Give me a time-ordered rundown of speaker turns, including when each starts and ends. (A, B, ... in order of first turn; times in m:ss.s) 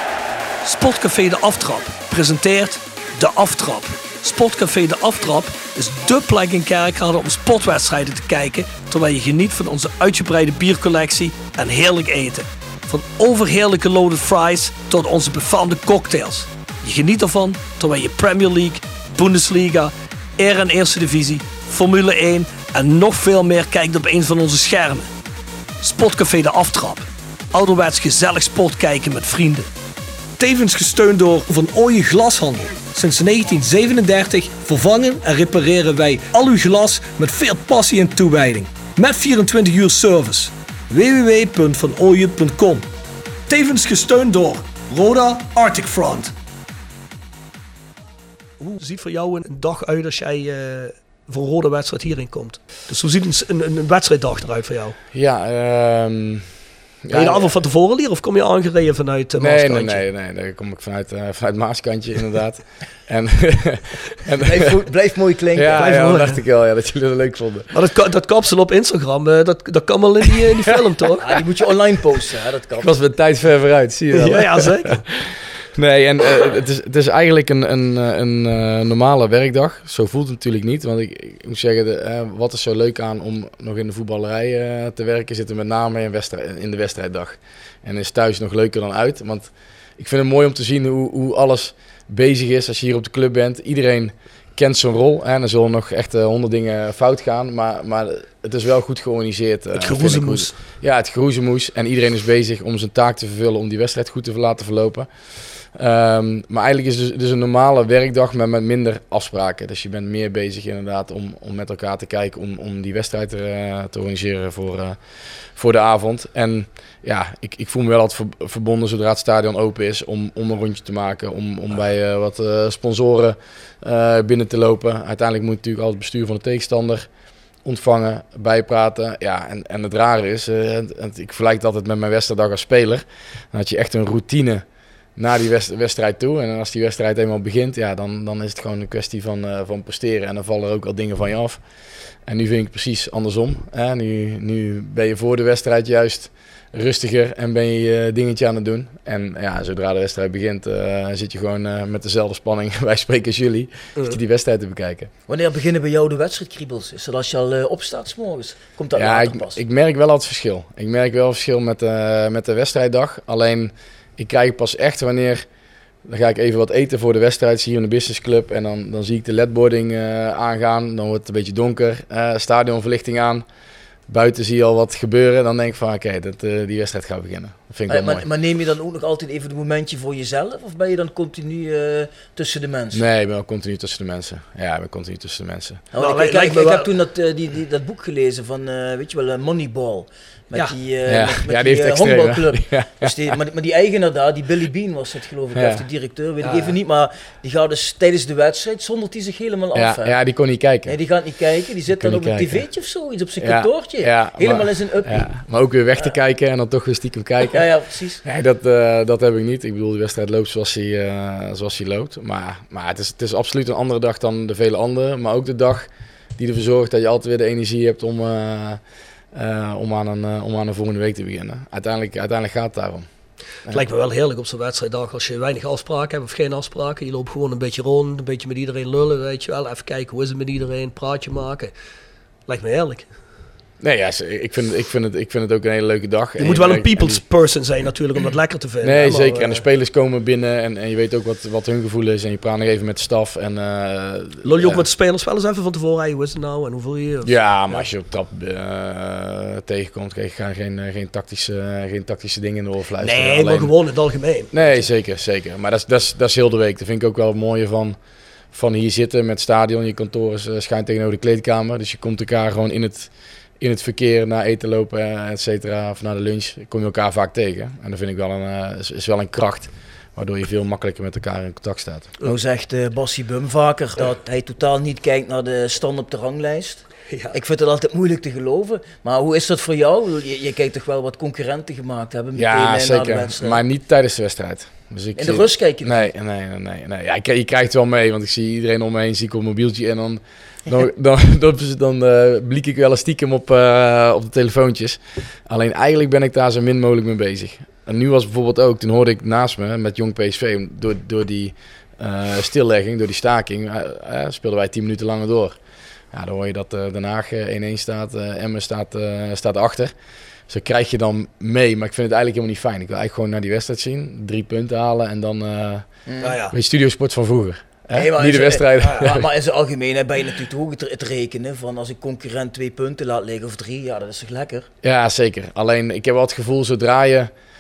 0:00.6-0:25.1 A
0:25.8-0:29.7 A
0:30.4-0:42.9 A
0:43.5-0:46.3 A
0:48.6-0:55.0 A
0:55.1-0:56.5 B
0:57.0-0:57.5 B
0:57.1-1:00.0 A
0:59.4-1:04.8 B
1:04.4-1:06.1 C
1:05.5-1:07.7 B
1:05.7-1:06.4 A
1:07.7-1:11.3 A
1:11.2-1:13.0 C
1:12.8-1:45.1 B
1:14.1-1:15.0 A
1:39.7-1:40.5 A
1:45.7-1:55.0 B
1:55.6-2:07.1 B
2:07.6-2:14.6 B
2:15.2-2:21.6 B
2:22.2-2:35.1 B
2:35.3-2:39.6 C
2:38.9-2:45.4 B
2:46.0-2:53.4 B
2:54.1-2:58.2 B
2:57.9-3:03.0 C
3:02.9-3:05.8 B
3:05.9-3:20.2 C
3:06.0-3:06.9 A
3:11.1-3:13.3 B
3:15.5-3:15.8 B
3:16.4-3:16.7 A
3:19.7-3:21.0 B
3:20.8-3:25.3 C
3:21.9-3:22.6 B
3:23.4-3:27.6 B
3:27.5-3:28.2 C
3:28.2-3:38.8 B
3:39.3-3:43.1 B
3:43.7-3:51.7 A
3:52.5-3:53.1 A
3:53.8-3:57.2 B
3:56.4-3:59.6 A
3:58.8-4:04.8 B
4:04.4-4:07.8 A
4:07.2-4:13.7 B
4:13.0-4:14.8 A
4:14.5-4:18.0 B
4:18.5-4:32.1 B
4:32.2-4:43.6 C
4:37.1-4:37.3 A
4:42.4-5:05.6 B
4:45.2-4:46.1 C
5:06.1-5:09.9 B
5:10.5-5:15.9 B
5:16.0-5:16.4 C
5:16.2-5:16.5 A
5:16.5-5:19.3 B
5:17.9-5:24.7 C
5:24.8-5:27.3 B